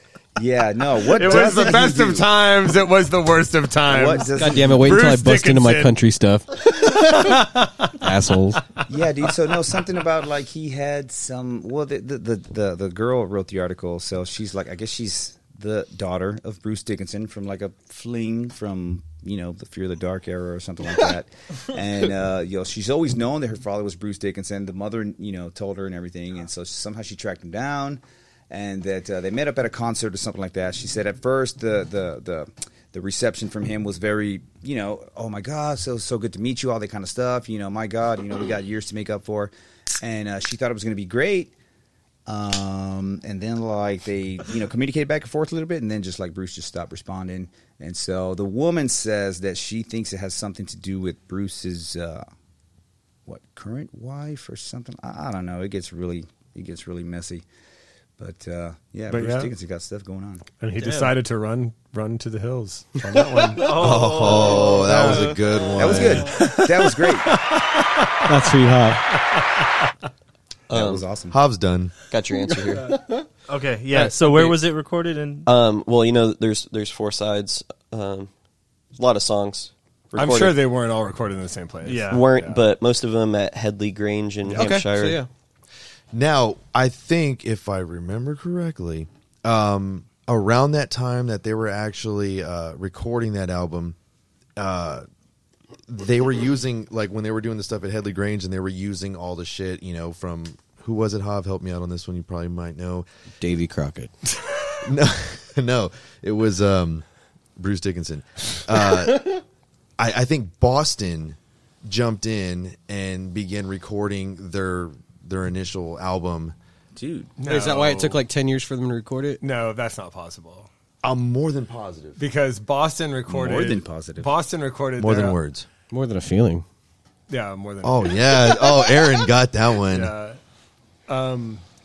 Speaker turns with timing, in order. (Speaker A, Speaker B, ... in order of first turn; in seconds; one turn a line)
Speaker A: 0.4-2.3
Speaker B: 1.0-5.9
Speaker A: 3.9-4.9
Speaker C: 4.3-7.5
Speaker B: 6.7-8.0
Speaker C: 8.0-8.6
Speaker A: 8.9-41.5
Speaker A: 42.3-52.2
Speaker A: 53.3-57.4
Speaker A: 58.2-60.5
Speaker B: 59.1-59.5
Speaker B: 60.6-68.3
Speaker C: 60.8-61.1
Speaker D: 63.5-65.1
Speaker E: 63.7-66.4
Speaker A: 65.8-67.3
Speaker C: 68.2-69.1
Speaker B: 69.1-69.7
Speaker F: 70.7-71.0
Speaker A: 70.7-71.4
Speaker E: 71.3-71.9
Speaker F: 72.1-72.9
Speaker C: 72.8-73.2
Speaker D: 73.5-75.5
Speaker F: 75.5-78.3
Speaker F: 78.9-80.6
Speaker B: 80.2-82.6
Speaker D: 81.8-82.2
Speaker F: 82.1-85.2
Speaker B: 84.5-84.8
Speaker C: 84.5-85.3
Speaker E: 86.1-94.0
Speaker E: 94.6-95.0
Speaker E: 95.9-103.0
Speaker C: 103.4-104.1
Speaker E: 104.8-107.0
Speaker E: 107.6-109.3
Speaker E: 110.0-116.5
Speaker A: 117.0-117.3
Speaker B: 117.4-118.2
Speaker C: 117.5-119.4
Speaker B: 119.4-120.7
Speaker E: 121.0-122.2
Speaker B: 122.2-125.4
Speaker A: 123.3-124.3
Speaker E: 125.0-125.7
Speaker C: 125.9-126.6
Speaker B: 127.3-128.3
Speaker E: 127.8-130.1
Speaker B: 129.9-130.4
Speaker B: 131.1-131.6